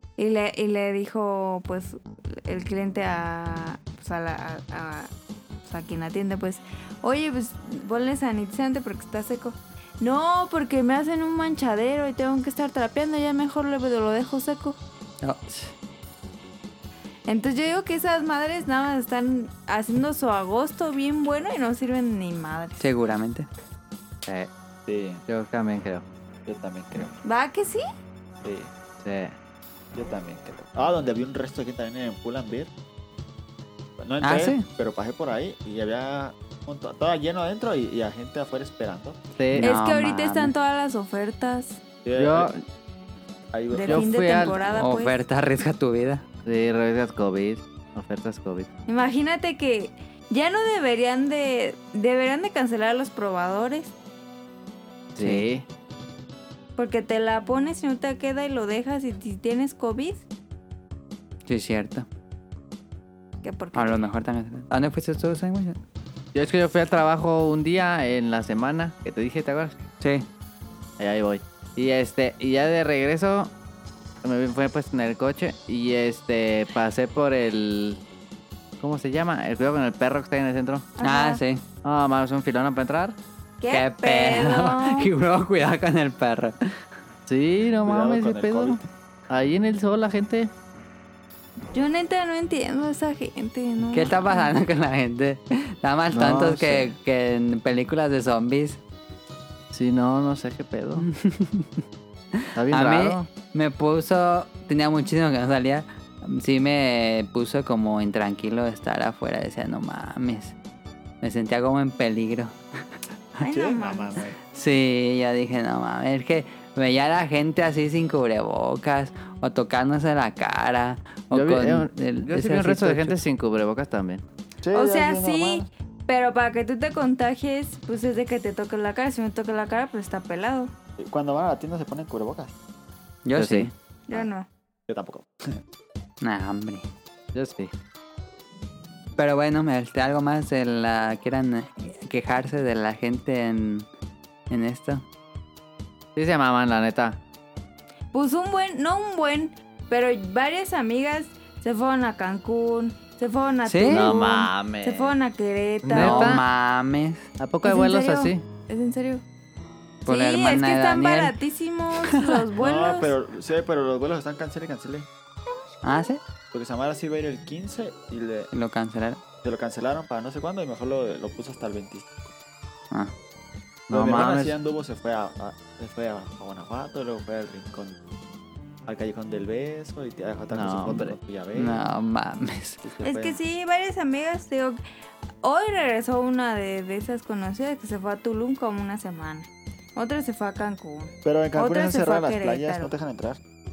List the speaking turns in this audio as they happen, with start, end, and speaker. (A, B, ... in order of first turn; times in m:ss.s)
0:00.2-0:05.1 A
0:05.6-0:14.8 A
0:15.2-0:15.7 B
0:17.3-0:22.9 A
0:22.8-0:23.5 B
0:24.9-0:25.2 C
0:25.3-0:26.0 D
0:26.5-0:27.2 C
0:27.2-0:27.8 A
0:28.4-0:28.7 C
0:29.0-0:29.3 D
0:30.0-0:32.7 C
0:34.0-0:39.2 C
0:34.2-0:34.7 B
0:39.4-0:39.7 D
0:39.5-0:40.5 B
0:39.6-0:41.8 A
0:42.0-0:42.5 C
0:42.2-0:42.6 D
0:43.5-0:44.9 C
0:43.7-0:45.2 A
0:43.9-0:44.6 D
0:44.8-0:46.2 B
0:46.4-0:48.7 D
0:48.9-0:53.9 A
0:55.2-0:55.6 D
0:55.2-0:55.4 B
0:56.8-1:00.2 A
1:01.5-1:02.1 B
1:03.4-1:04.0 A
1:03.8-1:05.8 B
1:06.4-1:09.7 D
1:10.0-1:10.3 B
1:11.0-1:13.5 D
1:14.2-1:18.0 D
1:18.8-1:20.9 D
1:21.0-1:21.4 A
1:21.0-1:21.6 B
1:21.8-1:23.2 D
1:23.6-1:25.1 A
1:23.7-1:26.6 B
1:27.3-1:30.5 D
1:27.8-1:28.9 C
1:31.7-1:34.5 A
1:33.9-1:38.8 B
1:36.1-1:36.9 D
1:39.7-1:41.1 D
1:41.0-1:41.8 B
1:42.6-1:43.3 D
1:42.7-1:50.6 B
1:51.2-1:52.6 B
1:53.4-1:54.2 A
1:53.5-1:54.4 C
1:54.5-2:03.2 B
2:01.3-2:04.2 D
2:04.6-2:05.7 C
2:04.7-2:10.7 A
2:11.0-2:12.6 C
2:13.2-2:13.7 B
2:13.4-2:13.7 D
2:14.1-2:14.5 A
2:14.9-2:15.6 C
2:16.2-2:16.9 B
2:17.3-2:17.7 D
2:19.2-2:23.9 B
2:24.5-2:25.0 B
2:26.2-2:27.2 D
2:28.1-2:36.4 A
2:33.7-2:34.1 B
2:33.9-2:35.2 D
2:35.8-2:36.4 D
2:35.9-2:37.3 B
2:37.4-2:38.4 D
2:37.6-2:39.2 A
2:40.1-2:41.4 B
2:40.1-2:43.1 A
2:42.1-2:42.4 B
2:42.6-2:45.1 C
2:45.8-2:46.2 B
2:46.5-2:48.5 C
2:48.5-2:49.2 B
2:49.4-2:52.3 C
2:53.9-2:54.6 D
2:53.9-2:58.0 C
2:58.9-3:01.8 C
3:00.5-3:01.2 D
3:01.6-3:02.8 B
3:02.8-3:03.4 C
3:03.0-3:04.8 A
3:05.4-3:12.9 A
3:11.2-3:13.4 C